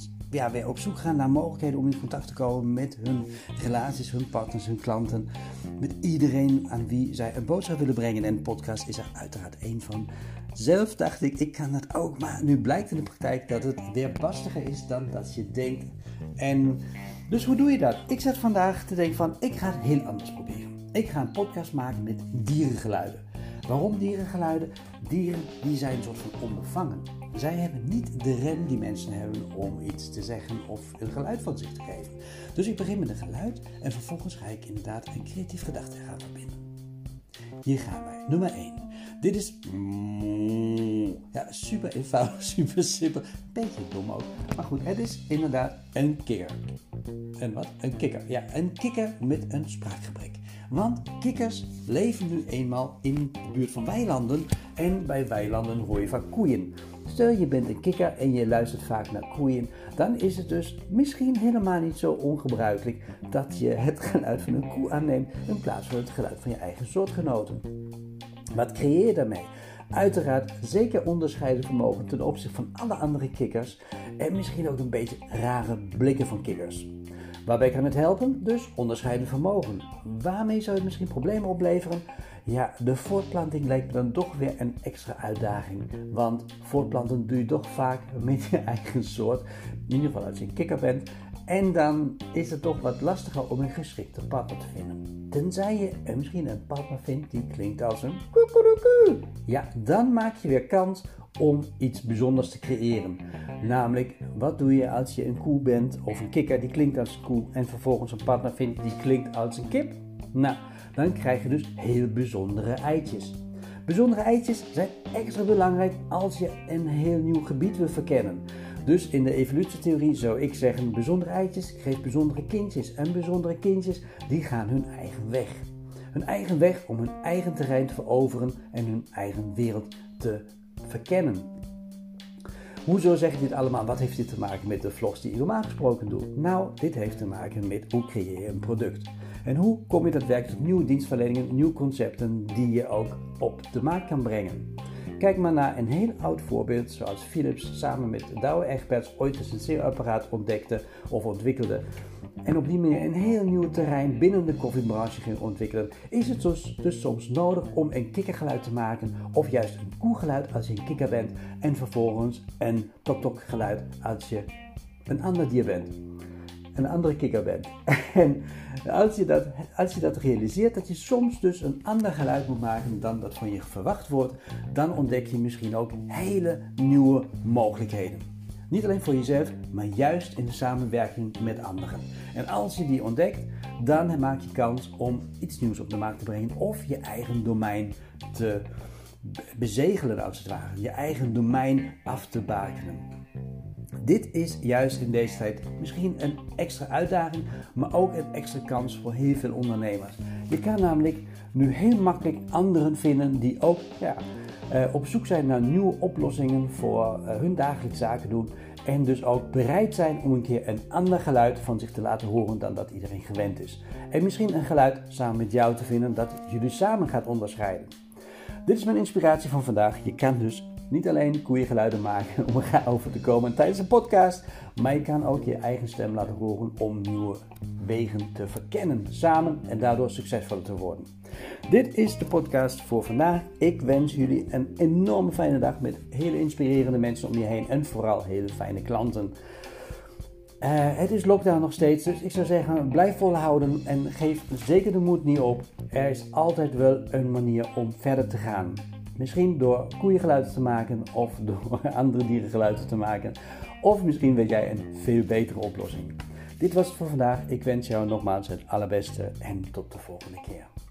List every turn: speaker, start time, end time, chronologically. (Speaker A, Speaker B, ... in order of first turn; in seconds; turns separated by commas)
Speaker A: 0.3-36.7, Speaker A: 37.6-46.6, Speaker A: 47.4-67.7, Speaker A: 68.5-76.9, Speaker A: 77.4-131.5, Speaker A: 132.8-151.8, Speaker A: 152.4-164.5, Speaker A: 165.1-166.0, Speaker A: 166.7-188.7, Speaker A: 189.2-193.1, Speaker A: 194.0-217.9, Speaker A: 218.6-231.1, Speaker A: 231.7-239.3, Speaker A: 240.6-260.7